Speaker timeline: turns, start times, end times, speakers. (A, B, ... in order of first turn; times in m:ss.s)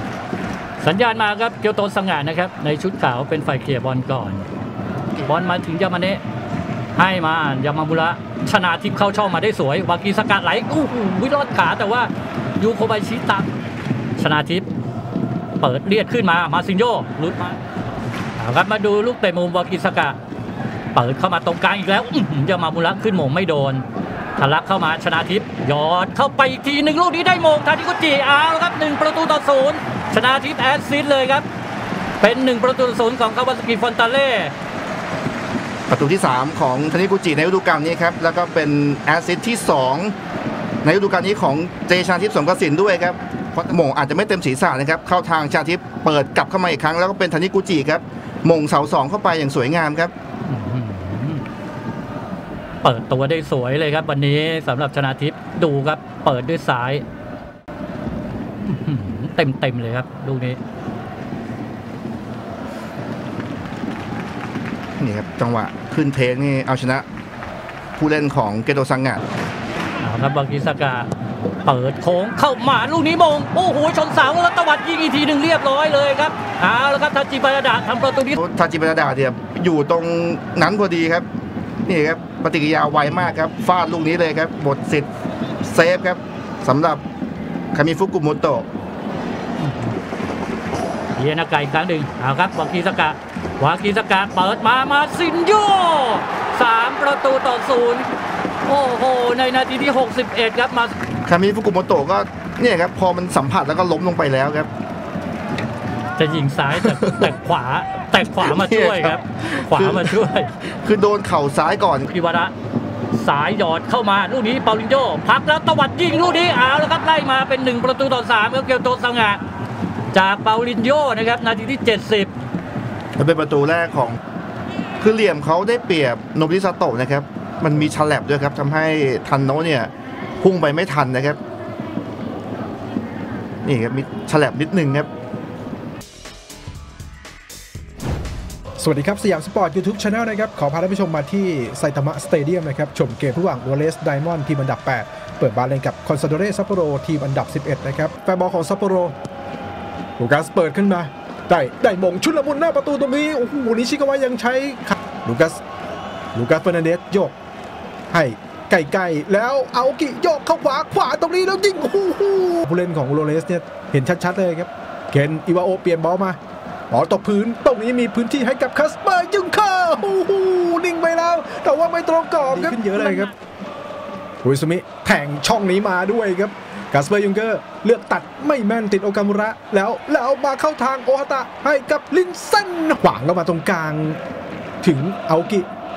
0:00.8-0:04.4 A
0:05.2-0:06.2 A
0:07.0-0:13.5 A
0:14.2-0:14.7 A
0:15.6-0:17.6 A
0:18.4-0:20.2 A
0:20.9-0:23.8 A
0:24.4-0:31.4 A
0:32.2-0:34.5 A
0:35.9-0:40.1 B
0:40.8-0:50.1 B
0:50.4-0:51.4 A
0:52.8-0:57.0 A
0:58.6-1:00.6 A
1:05.0-1:07.0 B
1:08.0-1:09.2 B
1:10.0-1:11.1 A
1:11.6-1:18.4 A
1:18.4-1:21.2 B
1:21.8-1:25.1 B
1:25.6-1:27.0 B
1:27.7-1:28.7 B
1:29.6-1:29.9 A
1:31.2-1:38.1 A
1:38.6-1:40.9 A
1:41.2-1:44.7 B
1:46.2-1:50.5 A
1:47.0-1:47.3 B
1:48.3-1:52.1 B
1:52.1-1:52.5 A
1:53.1-1:59.4 A
2:00.1-2:02.3 A
2:03.2-2:04.2 B
2:05.0-2:11.4 B
2:13.6-2:15.1 B
2:18.8-2:29.1 C
2:30.2-2:35.6 C
2:36.3-2:37.3 C
2:38.1-2:46.4 C
2:46.9-2:53.3 C
2:54.4-3:04.2 C
3:04.8-3:05.7 C